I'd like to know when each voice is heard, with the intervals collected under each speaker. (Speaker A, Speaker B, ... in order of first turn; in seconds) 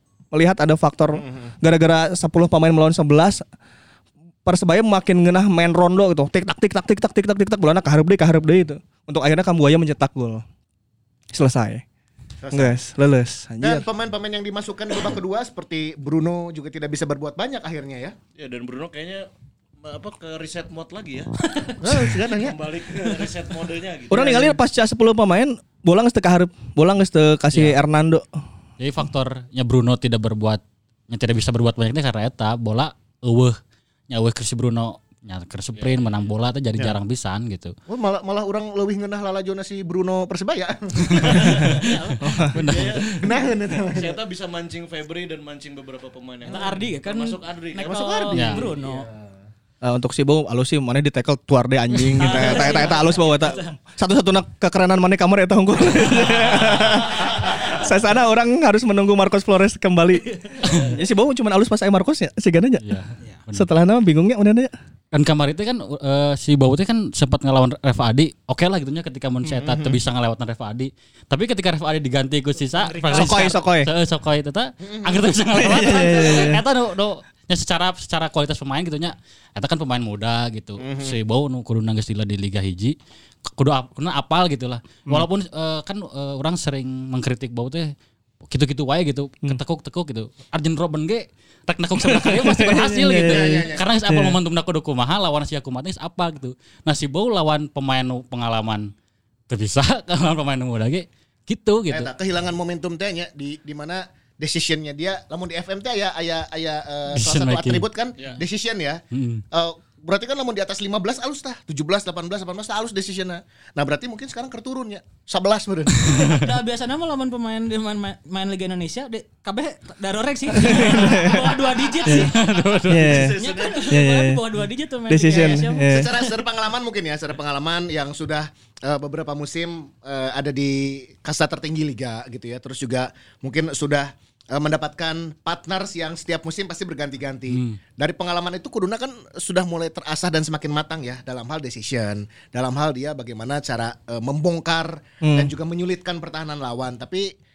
Speaker A: 0.3-3.4, 4.4-10.4, 11.3-11.8, 12.5-13.8, 24.1-28.2, 42.2-42.6, 49.8-62.8, 63.5-64.7, 73.1-73.9, 75.5-76.6, 92.0-94.4, 120.5-121.5, 122.9-123.4, 123.9-124.4, 125.1-126.1, 145.2-145.5
Speaker B: 1.1-1.5, 12.4-12.7, 13.6-18.1, 21.8-23.3, 24.1-24.5, 37.9-41.6, 43.0-44.2, 47.8-49.3, 69.5-70.0, 74.8-75.3, 80.8-81.2, 93.2-93.8, 101.9-109.0, 109.5-116.2, 121.5-122.3, 125.3-147.3
Speaker C: 18.4-19.3, 19.8-24.4, 35.8-36.2, 41.2-42.0, 42.6-43.1, 43.9-48.7, 122.9-124.0
Speaker D: 27.5-27.8, 28.8-33.5, 34.1-37.7, 41.1-41.9, 42.5-43.2, 48.3-48.6, 52.2-52.6, 62.8-63.7, 65.1-82.9, 83.5-87.9, 88.5-98.9, 99.5-102.1, 107.1-107.8, 109.1-109.4, 116.0-116.4, 122.0-123.3, 137.5-137.8
Speaker E: 41.8-42.2, 46.5-49.1, 52.2-53.7, 72.7-73.5, 116.0-122.3, 123.3-126.2